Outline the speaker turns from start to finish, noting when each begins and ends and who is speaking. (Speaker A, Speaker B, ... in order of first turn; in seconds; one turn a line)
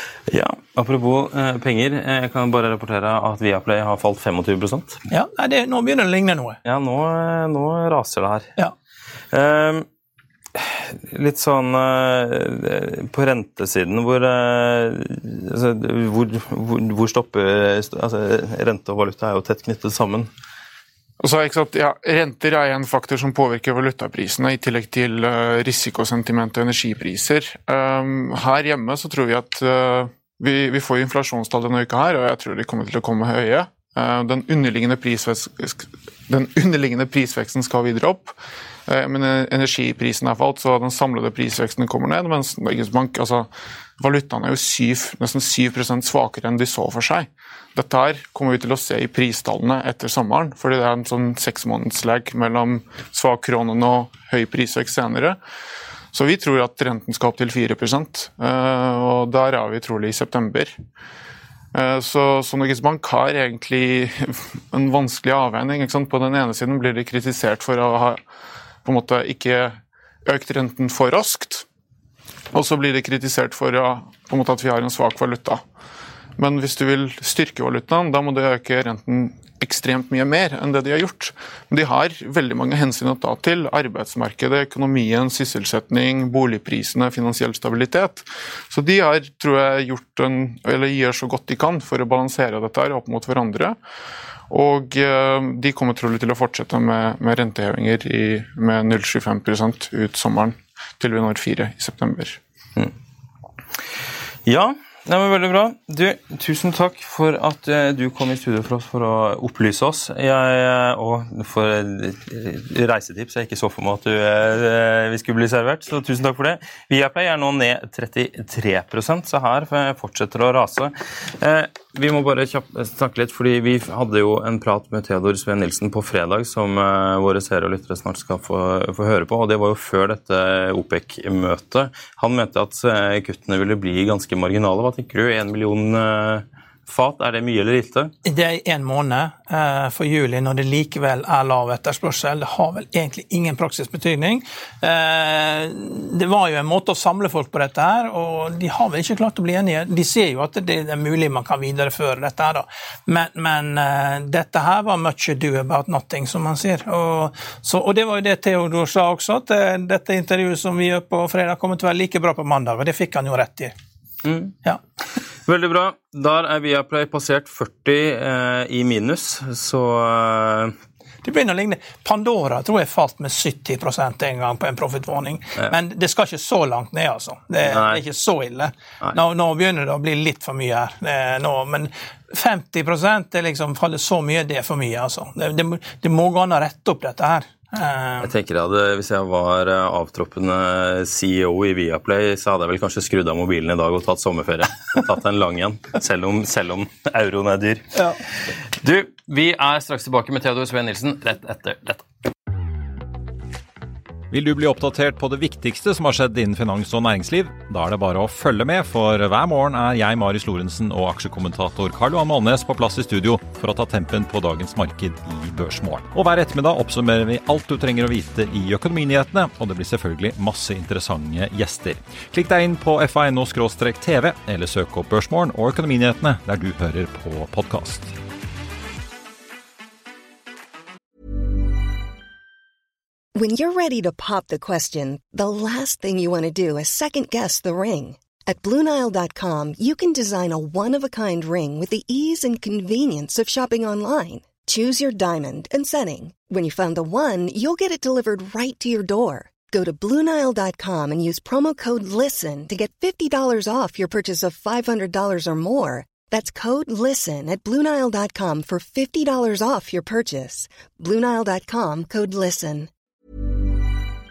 Speaker A: 0.3-5.0
Speaker B: 5.1-6.6
Speaker A: 6.6-8.5
Speaker A: 9.3-9.8
Speaker A: 10.5-20.3
Speaker C: 21.2-38.4
Speaker C: 38.9-55.4
Speaker C: 56.1-60.8
Speaker C: 61.7-68.2
Speaker C: 68.8-71.7
Speaker C: 72.5-75.6
Speaker C: 76.4-93.8
Speaker C: 94.5-102.4
Speaker A: 104.5-138.1
Speaker B: 138.2-163.7
Speaker A: 164.2-164.5
Speaker A: 165.4-170.7
Speaker B: 171.2-188.3
Speaker A: 177.6-178.0
Speaker A: 188.2-197.8
Speaker A: 198.8-202.1
Speaker D: 204.3-228.1
Speaker E: 233.3-262.9